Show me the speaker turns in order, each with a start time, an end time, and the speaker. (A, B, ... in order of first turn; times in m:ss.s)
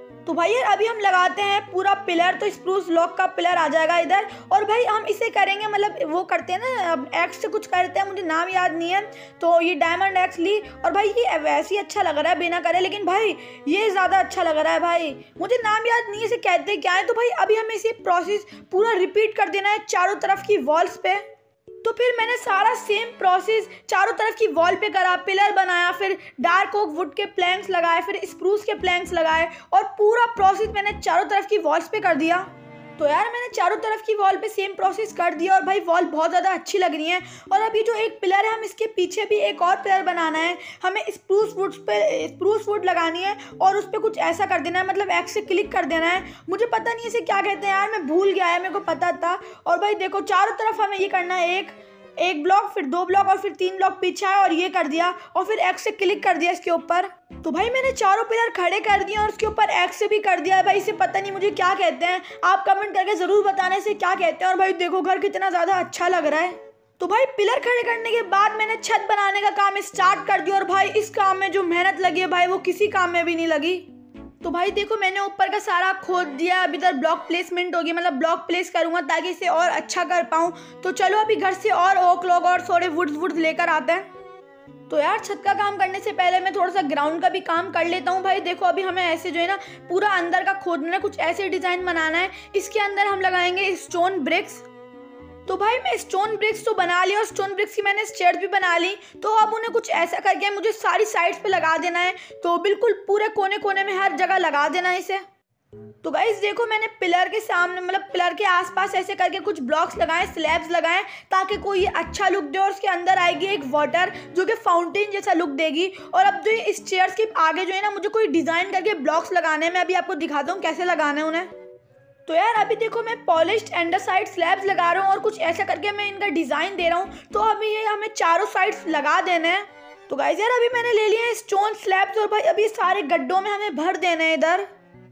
0:00.2-0:21.2 A
0:21.8-1:13.9 A
1:14.4-1:24.1 A
1:24.9-1:34.7 A
1:35.4-1:45.2 A
1:46.0-2:01.5 A
2:02.2-2:14.7 A